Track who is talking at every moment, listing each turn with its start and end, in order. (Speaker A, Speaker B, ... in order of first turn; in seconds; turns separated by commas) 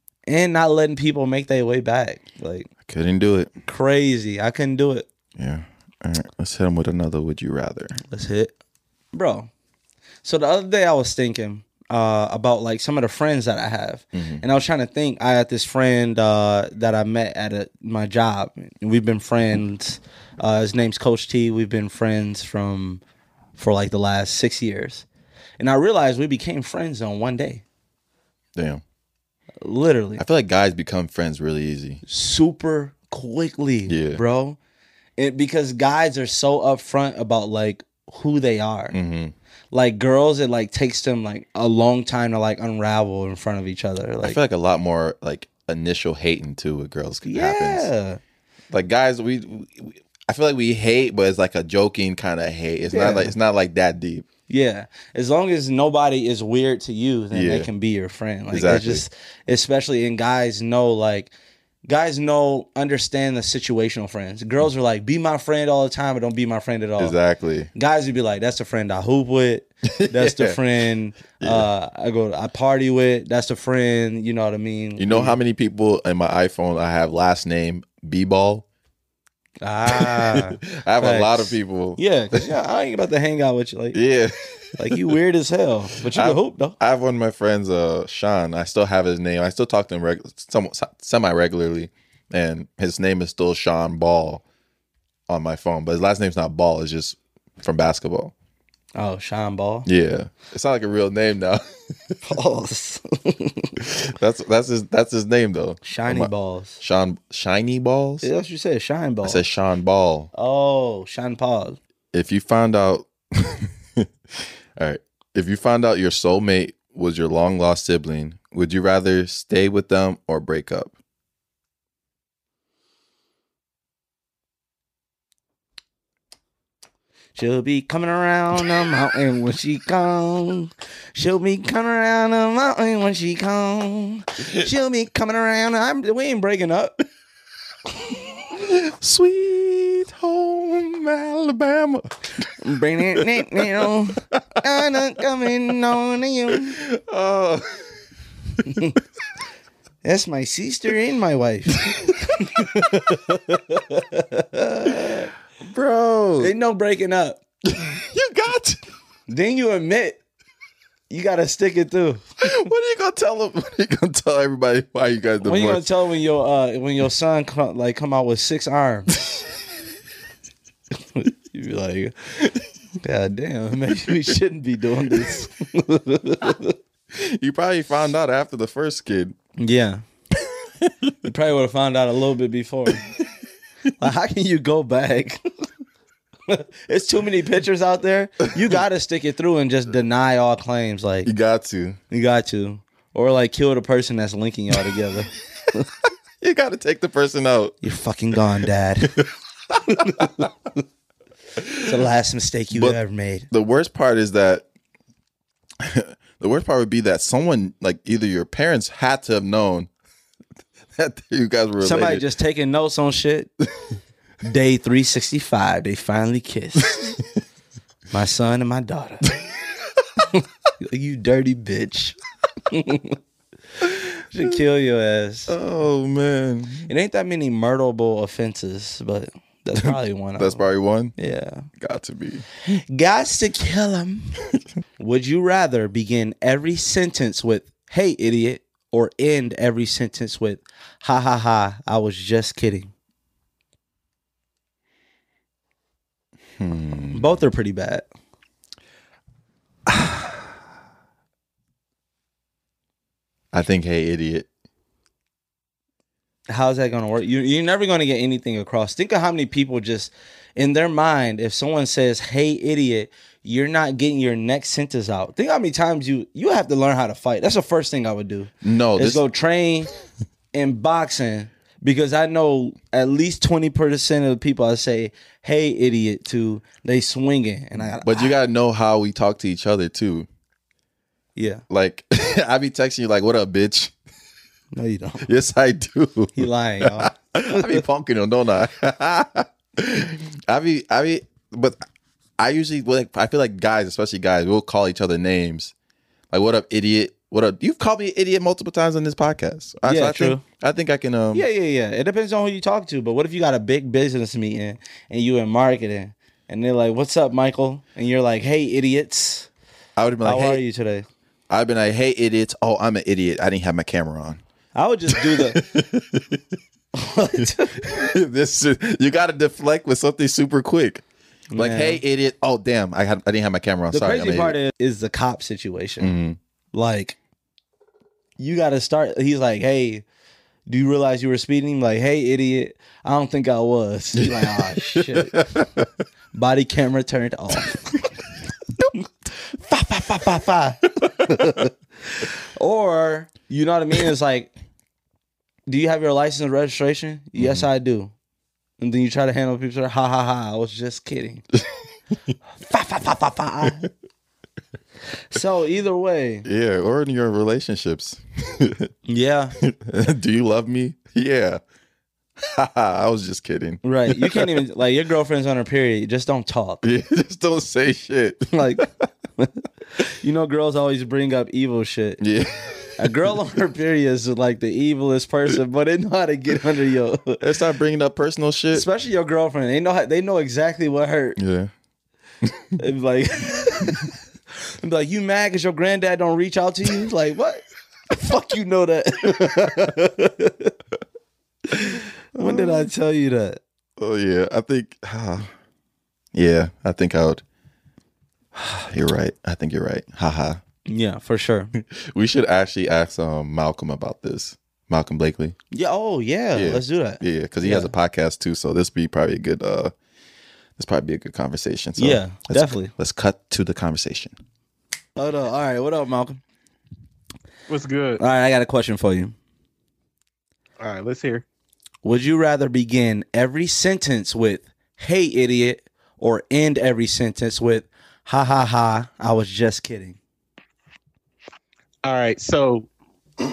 Speaker A: 0.3-2.7, Speaker B: 2.9-3.5, Speaker A: 3.7-5.1, Speaker B: 5.4-8.0, Speaker A: 8.1-8.6, Speaker A: 9.1-9.5, Speaker A: 10.2-23.0, Speaker B: 14.1-14.4, Speaker A: 23.6-25.1, Speaker A: 25.6-27.6, Speaker B: 28.6-28.8, Speaker A: 29.6-30.2, Speaker B: 30.2-32.0, Speaker A: 32.0-34.6, Speaker B: 33.9-34.2, Speaker A: 35.2-39.0, Speaker B: 38.9-39.3, Speaker A: 39.7-44.4, Speaker B: 44.2-47.9, Speaker A: 47.3-48.2, Speaker B: 48.7-54.3, Speaker A: 52.9-53.3, Speaker A: 54.5-61.3, Speaker B: 57.3-57.7, Speaker B: 58.5-59.0, Speaker A: 61.9-67.2, Speaker B: 67.0-67.7, Speaker A: 67.8-75.4, Speaker B: 69.8-70.6, Speaker B: 71.4-71.7, Speaker B: 75.0-78.7, Speaker A: 79.6-84.0, Speaker B: 79.9-82.5, Speaker B: 83.9-85.1, Speaker A: 84.8-86.8, Speaker B: 86.0-94.4, Speaker B: 95.3-98.3, Speaker A: 99.0-99.9, Speaker B: 99.9-102.2, Speaker A: 102.2-103.8, Speaker B: 103.8-108.3, Speaker A: 105.8-106.8, Speaker A: 108.2-109.4, Speaker B: 109.2-110.3, Speaker A: 110.3-111.8, Speaker B: 112.1-120.9, Speaker A: 127.3-137.0, Speaker B: 138.6-142.5, Speaker A: 142.6-146.8, Speaker B: 143.1-145.0, Speaker B: 146.5-147.9, Speaker A: 148.7-149.0, Speaker A: 150.0-155.3, Speaker B: 151.9-153.2, Speaker B: 155.6-156.5, Speaker A: 156.4-157.4, Speaker B: 157.7-158.8, Speaker A: 159.3-160.2, Speaker A: 161.1-162.3, Speaker B: 162.4-165.8, Speaker A: 165.4-169.3, Speaker A: 171.1-172.2, Speaker A: 173.0-176.8, Speaker B: 177.1-179.4, Speaker A: 179.6-180.0, Speaker B: 180.8-181.1, Speaker A: 181.2-183.0, Speaker A: 184.0-185.7, Speaker A: 186.5-191.3, Speaker B: 191.2-192.0, Speaker A: 192.1-195.9, Speaker B: 196.4-197.8, Speaker A: 197.8-199.2, Speaker B: 199.1-200.5, Speaker A: 199.9-200.5, Speaker B: 201.6-201.9, Speaker A: 201.9-203.5, Speaker B: 202.7-203.0, Speaker B: 203.5-204.7, Speaker B: 205.8-209.9, Speaker B: 210.9-212.2, Speaker A: 211.8-213.5, Speaker A: 214.4-217.2, Speaker A: 218.1-219.3, Speaker A: 220.2-223.2, Speaker A: 224.3-225.5, Speaker B: 225.5-226.9, Speaker A: 226.9-230.7, Speaker B: 230.4-231.2, Speaker A: 231.2-231.7, Speaker B: 231.8-232.4, Speaker A: 232.7-234.3, Speaker A: 235.0-242.9, Speaker B: 246.6-247.4, Speaker A: 247.1-248.1, Speaker B: 249.9-250.2, Speaker B: 253.5-254.5, Speaker A: 256.5-269.9, Speaker B: 268.6-269.2, Speaker A: 270.5-278.3, Speaker B: 277.9-280.3, Speaker A: 281.4-281.6, Speaker B: 281.7-283.9, Speaker A: 284.7-285.3, Speaker B: 285.2-291.8, Speaker A: 286.4-287.8, Speaker B: 292.4-295.7, Speaker B: 296.3-301.4, Speaker A: 299.8-300.4, Speaker A: 301.3-309.5, Speaker B: 310.0-310.6, Speaker A: 310.2-311.1, Speaker B: 311.5-314.4, Speaker A: 314.8-315.6, Speaker B: 315.1-316.4, Speaker A: 316.9-318.1, Speaker B: 317.4-321.0, Speaker A: 321.5-322.0, Speaker B: 321.6-324.6, Speaker A: 323.9-326.1, Speaker B: 326.0-326.4, Speaker A: 326.7-327.2, Speaker A: 328.4-330.1, Speaker A: 330.7-335.5, Speaker B: 334.1-335.9, Speaker A: 336.3-338.0, Speaker A: 339.6-344.5, Speaker B: 341.1-341.4, Speaker A: 345.7-348.1, Speaker B: 347.4-347.6, Speaker A: 348.8-351.4, Speaker A: 352.6-353.9, Speaker A: 355.3-356.4, Speaker B: 356.4-358.9, Speaker A: 359.1-359.6, Speaker B: 359.6-361.6, Speaker B: 362.4-364.5, Speaker A: 363.8-366.8, Speaker B: 366.8-368.9, Speaker A: 368.5-372.2, Speaker B: 372.2-373.1, Speaker A: 373.0-377.4, Speaker B: 377.4-378.9, Speaker A: 378.7-381.4, Speaker B: 381.4-381.7, Speaker B: 382.4-382.8, Speaker A: 382.8-384.1, Speaker A: 384.8-390.7, Speaker A: 391.7-393.6, Speaker B: 392.4-392.9, Speaker B: 394.0-395.5, Speaker B: 396.3-397.4, Speaker B: 398.6-400.6, Speaker A: 400.9-401.7, Speaker B: 401.8-405.6, Speaker A: 405.7-407.9, Speaker B: 406.5-409.9, Speaker B: 410.8-414.4, Speaker A: 412.0-412.9, Speaker A: 415.2-416.4, Speaker C: 417.7-418.2, Speaker A: 418.2-419.4, Speaker C: 420.8-421.4, Speaker A: 422.0-430.2, Speaker C: 432.0-432.9